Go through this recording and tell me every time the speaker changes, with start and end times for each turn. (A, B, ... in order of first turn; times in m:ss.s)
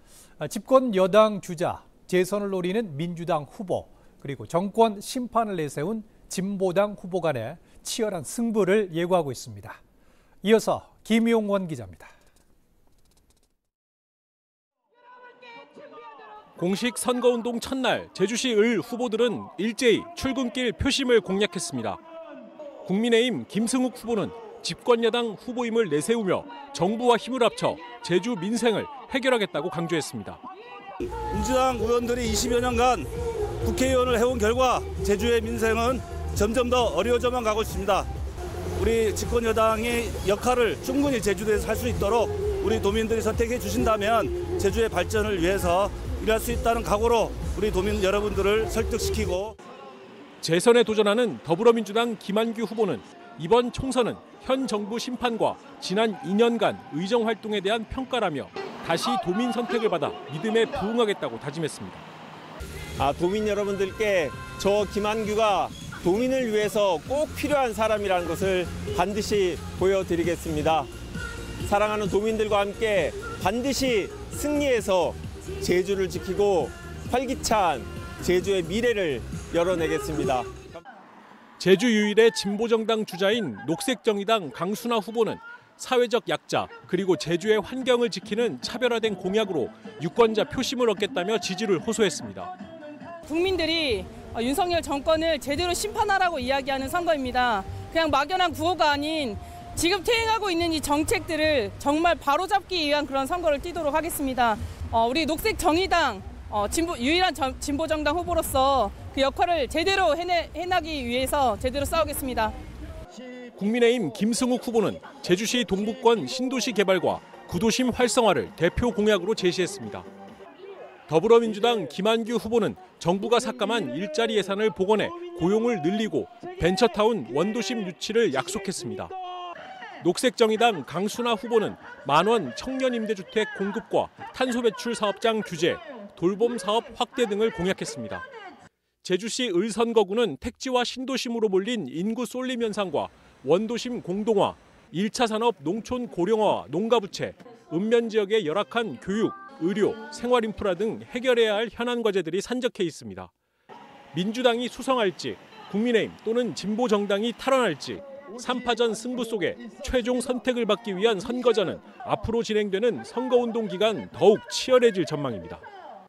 0:00.4-0:09.8 A
0:10.4-0:12.1 A
0:16.6-0:22.0 B
0:22.8-0:30.4 B
0:31.3-0:33.1 C
0:33.6-0:38.1 C
0:38.8-0:49.6 C
0:50.4-1:02.0 B
1:03.0-1:10.9 D
1:11.6-1:20.7 D
1:21.6-1:32.5 B
1:33.2-1:52.5 E
1:53.6-2:00.1 B
2:01.1-2:09.1 B
2:10.0-2:18.2 B
2:19.0-2:33.3 B
2:34.1-2:45.6 B